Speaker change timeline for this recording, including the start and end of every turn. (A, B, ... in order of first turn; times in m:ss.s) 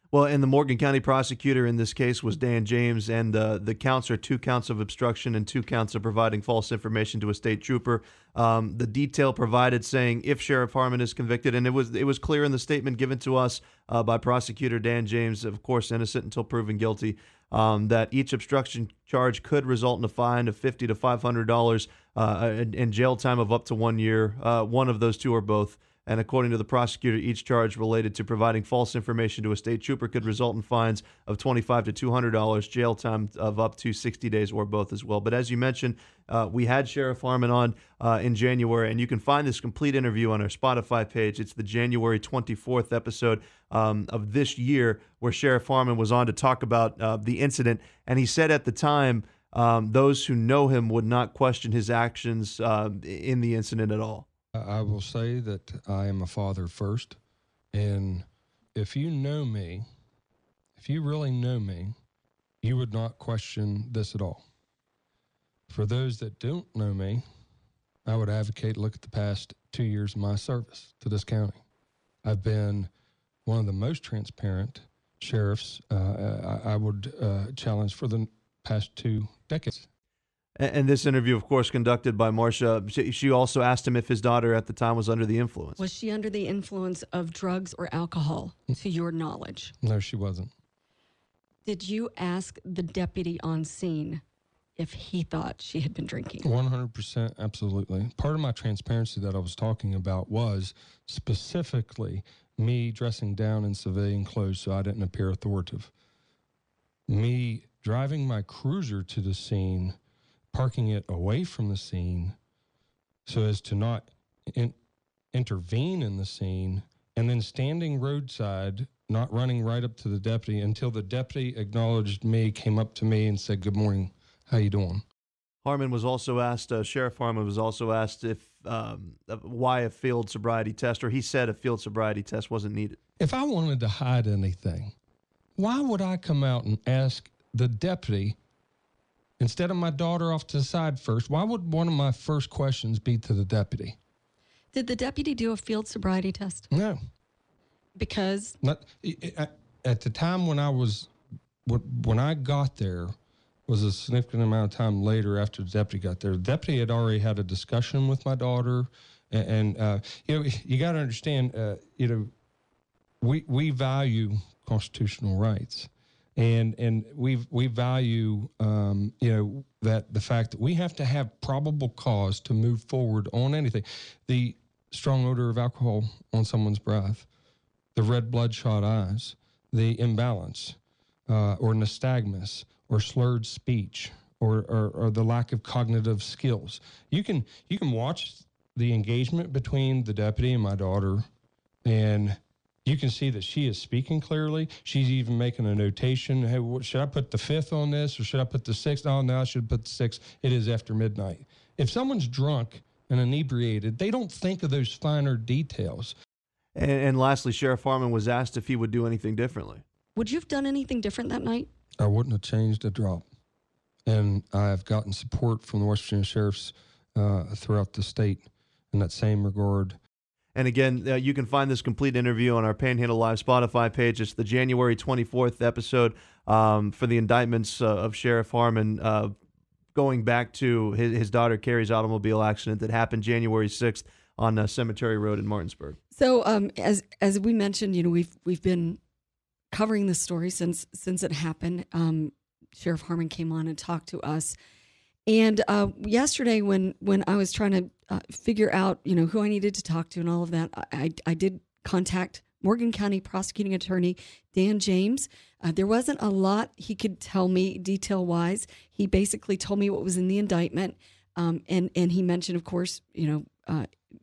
0:00.1-0:54.3 A
0:54.6-0:57.2 B
0:57.7-0:59.9 B
1:00.8-1:02.0 B
1:02.6-1:04.4 B
1:05.7-1:07.2 B
1:08.1-1:11.6 B
1:12.2-1:12.9 B
1:13.5-1:19.9 B
1:20.6-1:25.8 A
1:25.8-1:29.7 C
1:29.8-1:30.5 B
1:31.7-1:34.2 C
1:34.8-1:36.5 C
1:36.4-1:45.9 B
1:47.1-1:50.0 B
1:50.5-1:52.4 B
1:53.3-1:54.8 B
1:55.3-2:05.0 B
2:05.6-2:13.0 A
2:13.2-2:14.9 B
2:15.6-2:18.4 B
2:19.4-2:24.0 B
2:24.7-2:26.7 C
2:26.7-2:27.0 B
2:28.0-2:28.6 C
2:28.6-2:31.1 B
2:31.7-2:33.2 B
2:33.7-2:42.3 B
2:43.2-2:57.3 B
2:58.0-3:00.8 B
3:01.3-3:11.3 B
3:11.8-3:26.1 B
3:26.8-3:29.8 A
3:30.2-3:31.7 C
3:32.0-3:33.2 B
3:34.1-3:40.0 B
3:40.6-3:49.4 A
3:49.9-3:56.0 A
3:56.2-3:59.0 C
3:59.7-4:04.6 C
4:05.3-4:23.9 C